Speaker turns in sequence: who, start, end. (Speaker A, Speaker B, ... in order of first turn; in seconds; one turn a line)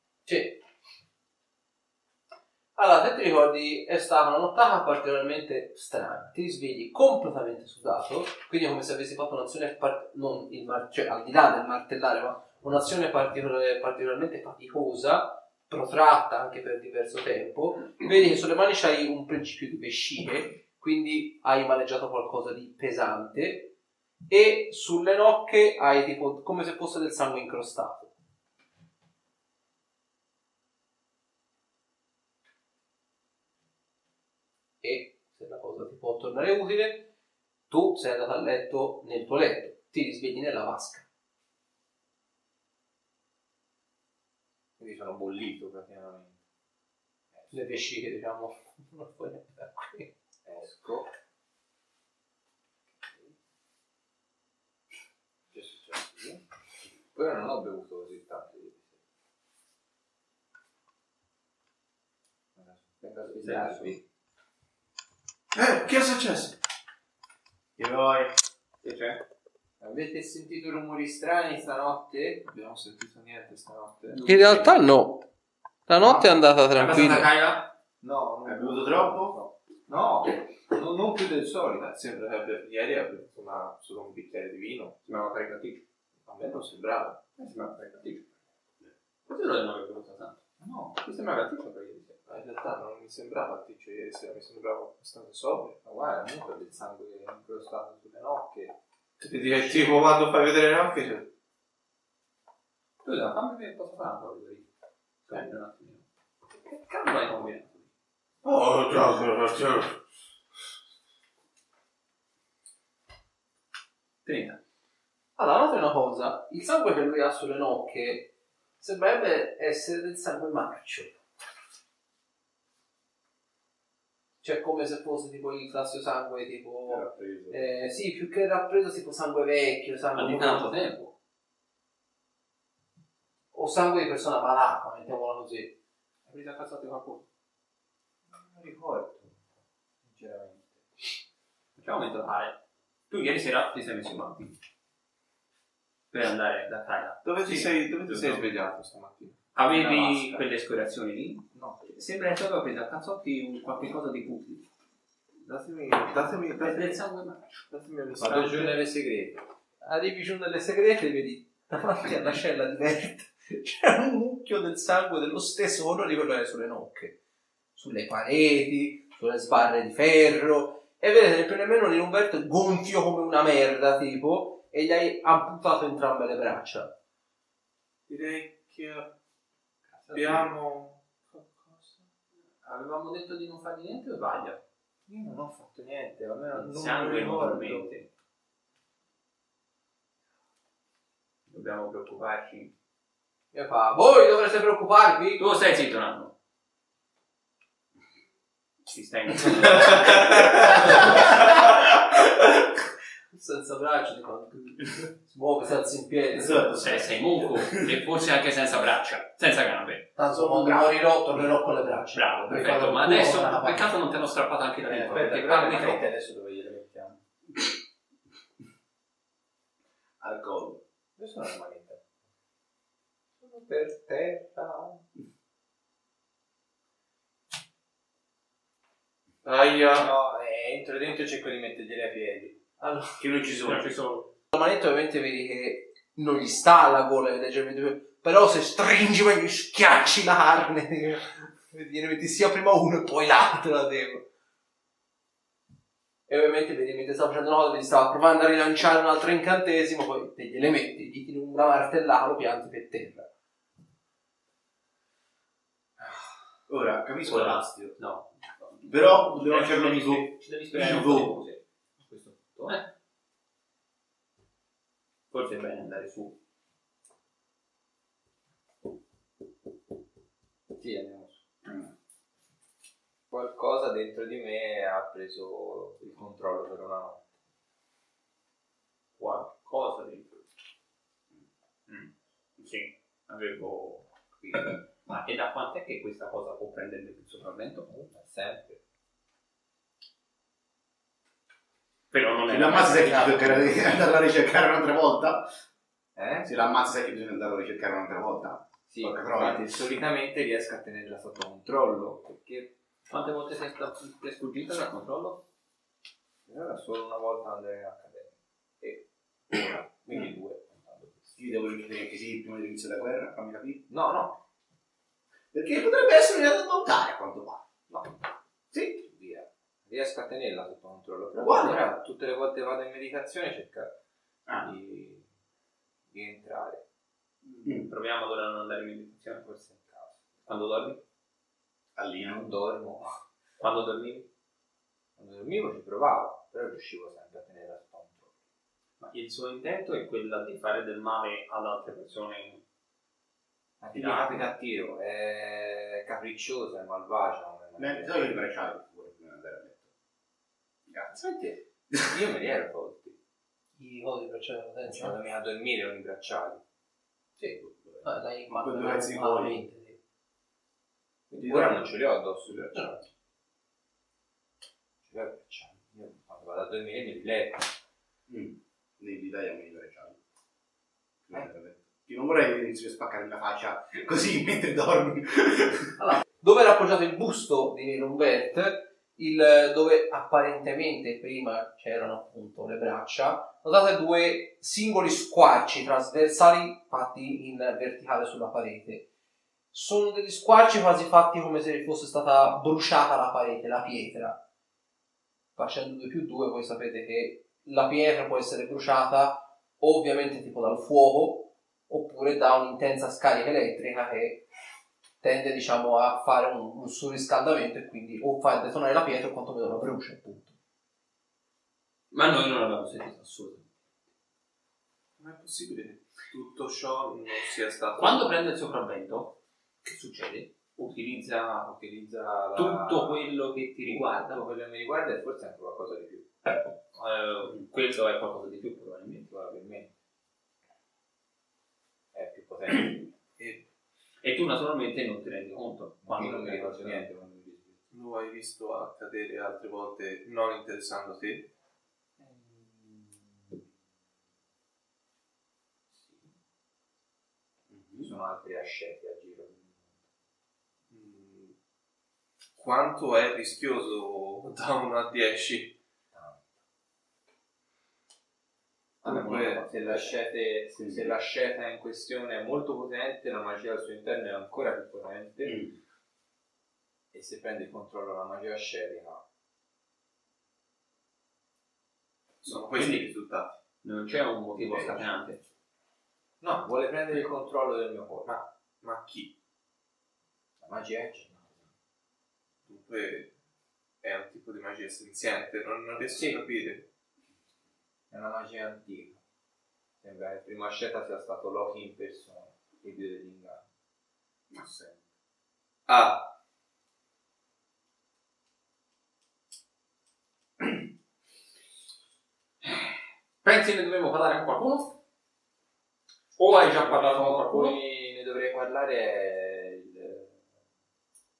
Speaker A: 0.3-0.6
Speaker A: 2.8-23.7
Speaker A: 24.3-28.1
Speaker A: 34.8-37.1
Speaker A: 37.7-41.1
Speaker B: 44.8-46.4
Speaker A: 47.5-50.1
Speaker B: 50.4-51.1
Speaker B: 53.0-53.4
Speaker B: 55.5-56.4
Speaker B: 57.1-59.0
Speaker B: 62.5-64.0
Speaker C: 63.4-64.0
Speaker D: 65.5-66.6
Speaker E: 67.8-68.3
Speaker C: 68.8-69.2
Speaker B: 69.8-72.5
Speaker D: 72.5-74.3
Speaker C: 74.1-74.7
Speaker A: 74.2-75.3
Speaker A: 75.9-77.3
Speaker B: 76.0-76.3
Speaker C: 76.7-77.7
Speaker B: 78.0-81.9
Speaker E: 78.4-79.4
Speaker D: 81.8-85.0
Speaker C: 85.1-85.8
Speaker D: 86.2-87.2
Speaker C: 87.4-88.3
Speaker C: 89.3-90.4
Speaker B: 90.6-91.0
Speaker C: 91.0-92.2
Speaker D: 92.3-95.8
Speaker B: 95.8-98.8
Speaker D: 99.2-101.3
Speaker C: 103.0-104.7
Speaker C: 105.3-107.9
Speaker D: 108.4-110.0
Speaker C: 114.2-114.6
Speaker A: 115.4-121.2
Speaker A: 124.4-130.8
Speaker E: 126.9-127.7
Speaker C: 130.2-131.1
Speaker A: 133.5-135.8
Speaker C: 136.3-137.2
Speaker B: 138.3-139.4
Speaker B: 140.0-140.8
Speaker C: 141.8-142.6
Speaker C: 143.1-144.5
Speaker C: 146.1-148.5
Speaker D: 147.2-150.4
Speaker C: 149.6-154.7
Speaker B: 151.5-151.8
Speaker D: 155.4-157.0
Speaker C: 156.5-157.7
Speaker D: 157.7-158.8
Speaker B: 158.2-159.4
Speaker A: 159.8-167.2
Speaker A: 167.8-176.9
Speaker D: 178.1-179.1
Speaker B: 179.9-180.5
Speaker D: 180.1-182.0
Speaker C: 182.6-184.6
Speaker B: 185.1-187.9
Speaker C: 186.5-188.1
Speaker C: 191.5-192.7
Speaker A: 193.5-195.4
Speaker C: 195.4-196.3
Speaker C: 198.9-201.5
Speaker D: 199.6-201.9
Speaker A: 203.3-206.8
Speaker E: 206.3-207.9
Speaker C: 206.8-210.1
Speaker A: 210.2-213.9
Speaker E: 210.3-210.9
Speaker C: 212.2-216.0
Speaker B: 214.9-217.2
Speaker E: 215.6-215.9
Speaker E: 220.2-220.8
Speaker B: 221.2-222.0
Speaker B: 223.4-225.0
Speaker D: 229.4-230.1
Speaker B: 229.9-232.6
Speaker A: 232.8-233.2
Speaker E: 233.2-234.0
Speaker C: 233.5-234.3
Speaker A: 234.5-244.2
Speaker A: 246.3-253.3
Speaker E: 256.7-258.0
Speaker C: 257.2-262.9
Speaker E: 258.9-261.4
Speaker C: 265.3-266.4
Speaker B: 270.8-271.9
Speaker B: 273.3-277.2
Speaker C: 279.2-280.5
Speaker C: 281.9-287.9
Speaker B: 287.9-288.8
Speaker C: 292.1-294.0
Speaker E: 292.5-295.5
Speaker B: 296.2-296.5
Speaker E: 296.4-299.7
Speaker B: 298.9-302.7
Speaker C: 303.1-305.4
Speaker B: 306.5-311.4
Speaker E: 311.4-313.9
Speaker B: 313.9-314.4
Speaker E: 315.5-317.6
Speaker B: 318.7-323.9
Speaker E: 321.4-321.8
Speaker C: 321.4-321.7
Speaker E: 324.5-324.7
Speaker B: 324.6-325.3
Speaker B: 326.1-326.8
Speaker E: 327.4-327.9
Speaker C: 327.8-329.4
Speaker B: 329.4-330.3
Speaker C: 330.5-331.0
Speaker E: 332.0-332.4
Speaker B: 332.2-333.2
Speaker C: 333.6-334.3
Speaker B: 335.2-338.4
Speaker C: 339.0-342.6
Speaker B: 343.8-348.3
Speaker C: 343.9-344.5
Speaker E: 347.8-349.9
Speaker B: 350.9-353.2
Speaker A: 353.8-355.2
Speaker B: 354.9-356.6
Speaker A: 357.4-360.0
Speaker E: 357.6-359.6
Speaker B: 361.3-362.8
Speaker E: 361.4-361.9
Speaker A: 362.7-363.0
Speaker B: 365.1-367.7
Speaker E: 368.3-370.2
Speaker E: 371.3-375.9
Speaker A: 376.0-389.1
Speaker A: 389.7-394.4
Speaker A: 395.6-404.5
Speaker A: 405.2-410.6
Speaker C: 412.1-413.7
Speaker D: 415.2-418.3
Speaker C: 418.0-421.7
Speaker B: 421.6-423.3
Speaker C: 422.6-424.4
Speaker B: 423.8-426.3
Speaker C: 426.9-429.3
Speaker B: 429.2-429.9
Speaker B: 432.1-433.1
Speaker C: 434.2-437.1
Speaker B: 436.0-437.8
Speaker D: 437.9-441.5
Speaker B: 442.2-443.6
Speaker B: 445.9-446.3
Speaker E: 447.7-448.1
Speaker B: 448.0-449.9
Speaker D: 450.9-451.6
Speaker D: 452.6-455.8
Speaker B: 456.1-456.4
Speaker D: 459.0-460.1
Speaker B: 459.0-465.6
Speaker E: 460.8-461.2
Speaker E: 465.4-465.8
Speaker B: 467.1-469.2
Speaker D: 472.4-473.6
Speaker C: 472.5-473.1
Speaker C: 473.8-475.4
Speaker B: 474.6-475.1
Speaker B: 476.4-478.3
Speaker D: 478.2-479.3
Speaker B: 480.6-481.7
Speaker D: 482.7-483.3
Speaker D: 484.0-486.9
Speaker B: 486.0-486.4
Speaker B: 488.1-489.2
Speaker B: 490.0-493.6
Speaker E: 494.5-494.9
Speaker D: 495.9-496.3
Speaker C: 503.4-505.0
Speaker C: 506.4-507.8
Speaker B: 506.6-510.4